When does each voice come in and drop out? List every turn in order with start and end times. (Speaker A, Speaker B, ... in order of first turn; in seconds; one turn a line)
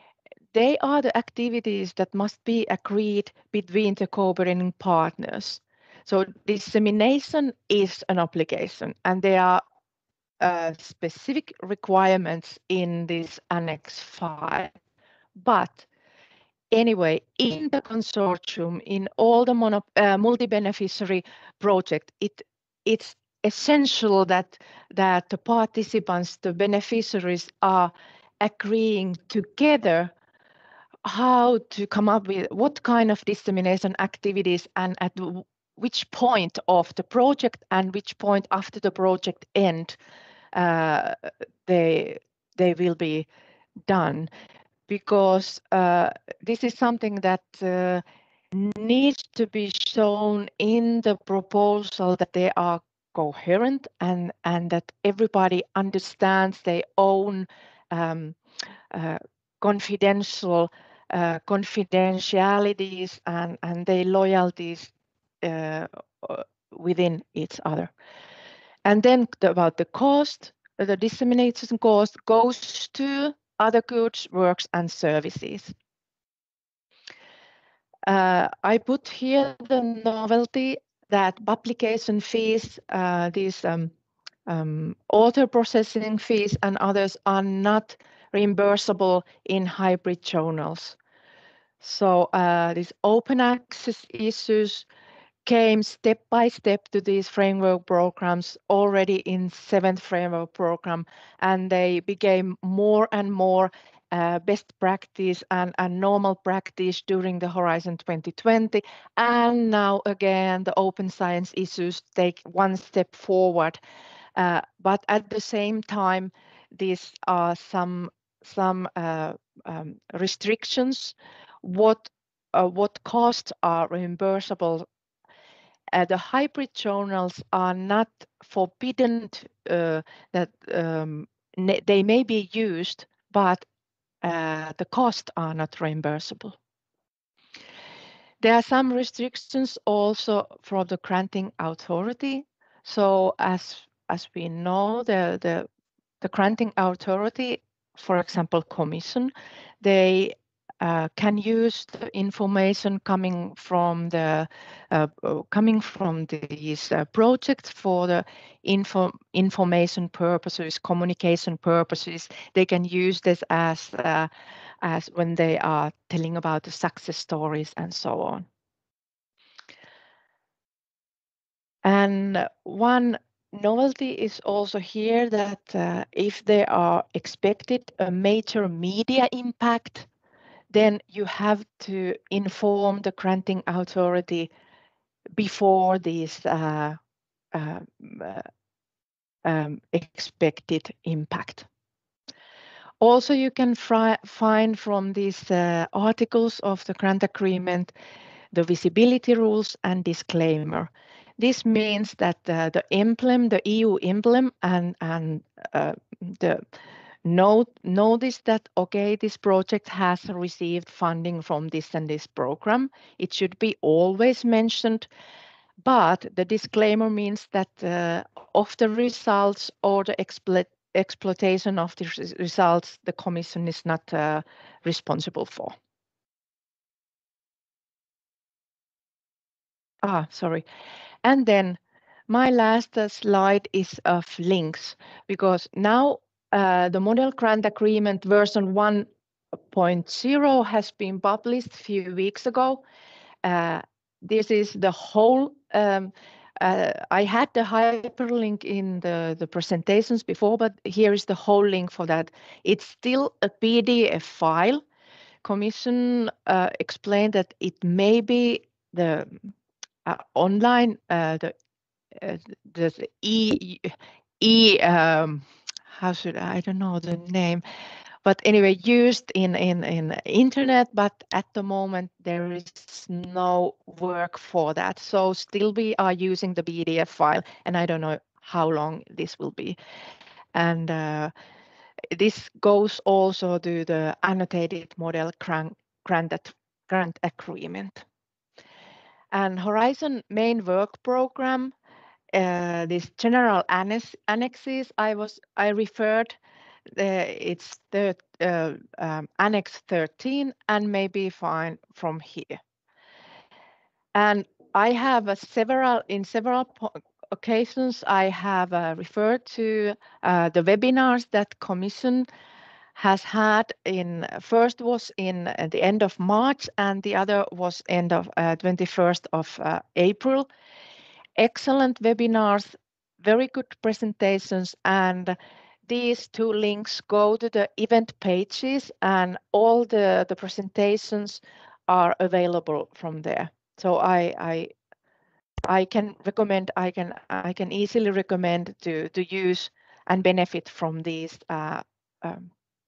Speaker A: 0.5-9.6
Speaker A: 10.4-14.7
Speaker A: 15.4-15.8
Speaker A: 16.7-30.1
Speaker A: 31.0-40.0
Speaker A: 40.5-43.3
Speaker A: 43.9-44.3
Speaker A: 44.9-58.4
Speaker A: 58.9-64.9
Speaker A: 65.4-67.9
Speaker A: 68.8-75.7
Speaker A: 78.0-83.9
Speaker A: 84.5-91.0
Speaker A: 91.8-94.8
Speaker A: 95.4-113.8
Speaker A: 114.3-124.9
Speaker A: 125.9-133.7
Speaker A: 134.2-136.6
Speaker A: 138.4-145.7
Speaker A: 146.2-164.3
Speaker A: 164.8-168.4
Speaker A: 171.8-180.1
Speaker A: 180.7-184.5
Speaker A: 185.4-187.0
Speaker A: 187.5-188.5
Speaker A: 189.4-191.7
Speaker A: 193.0-197.9
Speaker A: 198.5-206.6
Speaker A: 207.2-215.1
Speaker A: 215.8-225.7
Speaker A: 230.0-230.6
Speaker A: 231.2-242.8
Speaker A: 243.4-254.8
Speaker A: 255.4-259.5
Speaker A: 260.0-261.5
Speaker A: 262.1-267.6
Speaker A: 268.2-279.8
Speaker A: 280.5-281.3
Speaker A: 282.1-288.0
Speaker A: 289.3-291.7
Speaker A: 292.3-296.4
Speaker A: 296.9-302.6
Speaker A: 304.1-312.3
Speaker A: 312.9-320.5
Speaker A: 321.4-325.4
Speaker A: 325.9-334.7
Speaker A: 335.6-342.5